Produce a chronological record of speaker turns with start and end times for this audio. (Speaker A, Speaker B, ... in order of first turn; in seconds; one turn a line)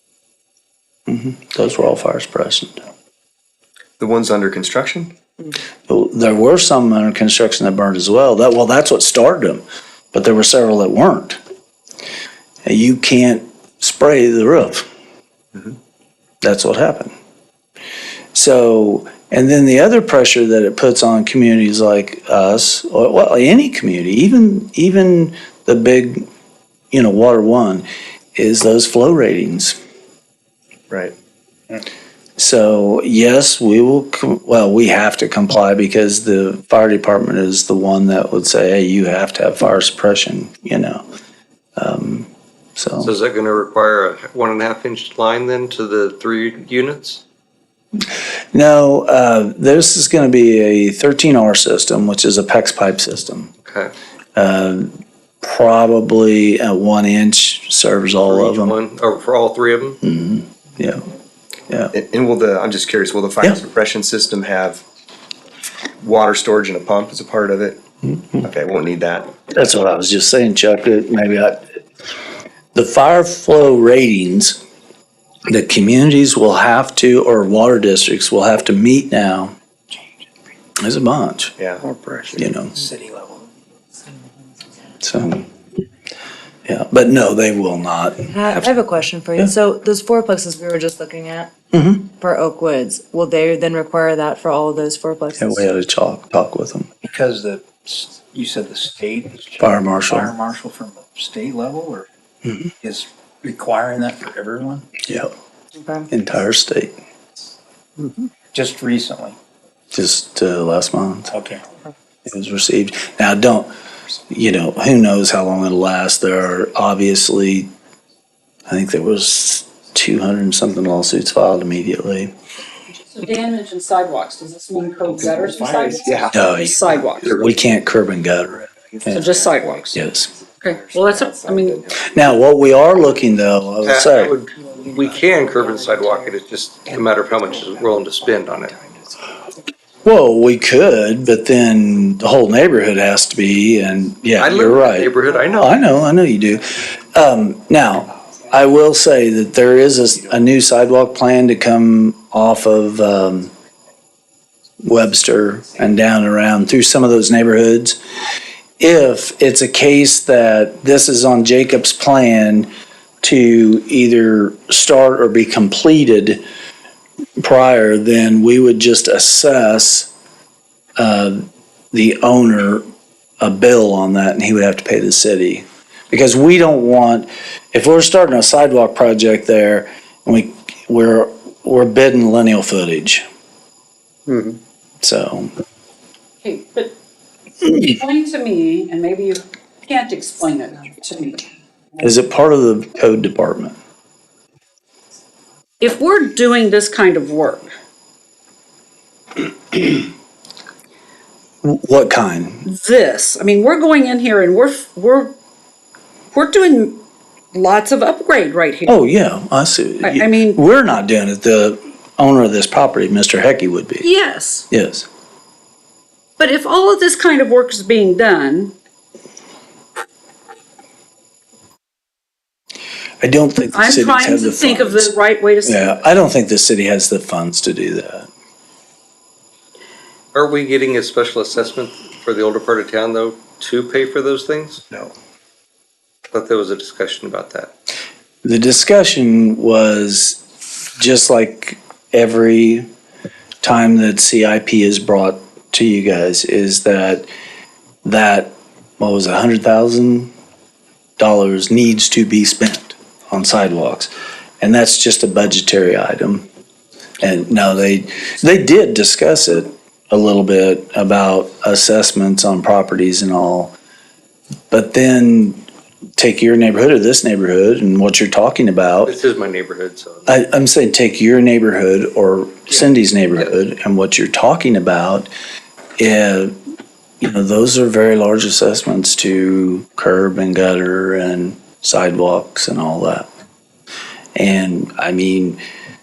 Speaker A: 1.1-2.8
Speaker B: 4.0-5.1
Speaker A: 5.9-9.6
Speaker A: 10.1-11.4
Speaker A: 12.6-14.9
Speaker A: 16.4-17.1
Speaker A: 18.3-26.2
Speaker A: 26.9-27.8
Speaker A: 28.4-29.8
Speaker A: 32.4-41.0
Speaker A: 41.8-43.1
Speaker C: 43.0-47.2
Speaker A: 48.5-53.5
Speaker C: 53.6-53.9
Speaker A: 54.3-58.8
Speaker C: 58.3-60.0
Speaker A: 60.0-61.0
Speaker B: 61.9-64.8
Speaker B: 66.0-67.8
Speaker A: 68.0-68.4
Speaker B: 68.4-69.3
Speaker A: 69.5-71.6
Speaker A: 72.7-74.6
Speaker A: 75.5-79.5
Speaker A: 80.8-81.5
Speaker B: 81.6-81.9
Speaker D: 81.8-83.5
Speaker A: 82.3-82.8
Speaker A: 85.0-85.5
Speaker A: 86.7-88.8
Speaker E: 88.2-91.5
Speaker A: 91.7-92.1
Speaker E: 92.2-95.7
Speaker A: 95.4-96.9
Speaker D: 97.0-102.1
Speaker A: 99.6-100.3
Speaker A: 102.4-102.7
Speaker D: 102.8-104.9
Speaker A: 105.0-105.3
Speaker E: 105.8-106.1
Speaker A: 106.1-106.9
Speaker D: 108.5-109.4
Speaker A: 109.9-111.3
Speaker D: 111.3-111.7
Speaker A: 112.2-113.7
Speaker A: 114.3-117.7
Speaker A: 118.7-122.3
Speaker F: 122.9-127.3
Speaker B: 125.2-126.5
Speaker A: 126.3-129.3
Speaker F: 129.1-130.0
Speaker A: 129.9-130.3
Speaker F: 130.6-131.8
Speaker B: 130.7-132.0
Speaker A: 132.1-134.3
Speaker C: 133.8-138.8
Speaker A: 140.0-153.5
Speaker C: 144.4-145.8
Speaker A: 154.8-158.0
Speaker A: 158.8-162.7
Speaker A: 163.2-166.4
Speaker A: 167.4-170.1
Speaker A: 171.0-172.8
Speaker A: 173.4-183.2
Speaker A: 185.0-185.5
Speaker F: 186.4-186.9
Speaker F: 187.6-192.1
Speaker A: 192.0-193.8
Speaker F: 195.8-197.7
Speaker A: 201.6-202.7
Speaker F: 202.6-205.3
Speaker F: 206.3-207.0
Speaker F: 207.5-209.0
Speaker A: 208.8-214.1
Speaker F: 210.0-210.6
Speaker F: 214.0-214.7
Speaker A: 214.7-215.1
Speaker F: 216.4-218.7
Speaker A: 223.2-228.3
Speaker F: 223.7-226.0
Speaker C: 230.3-234.8
Speaker C: 236.3-237.7
Speaker A: 238.4-240.4
Speaker A: 241.0-242.9
Speaker A: 243.6-247.2
Speaker A: 248.0-250.3
Speaker A: 251.2-254.1
Speaker A: 254.6-256.4
Speaker A: 257.2-263.7
Speaker A: 264.7-265.6
Speaker A: 266.2-269.1
Speaker C: 269.0-270.4
Speaker A: 270.2-275.3
Speaker A: 276.0-276.5
Speaker A: 277.2-283.3
Speaker A: 284.4-285.6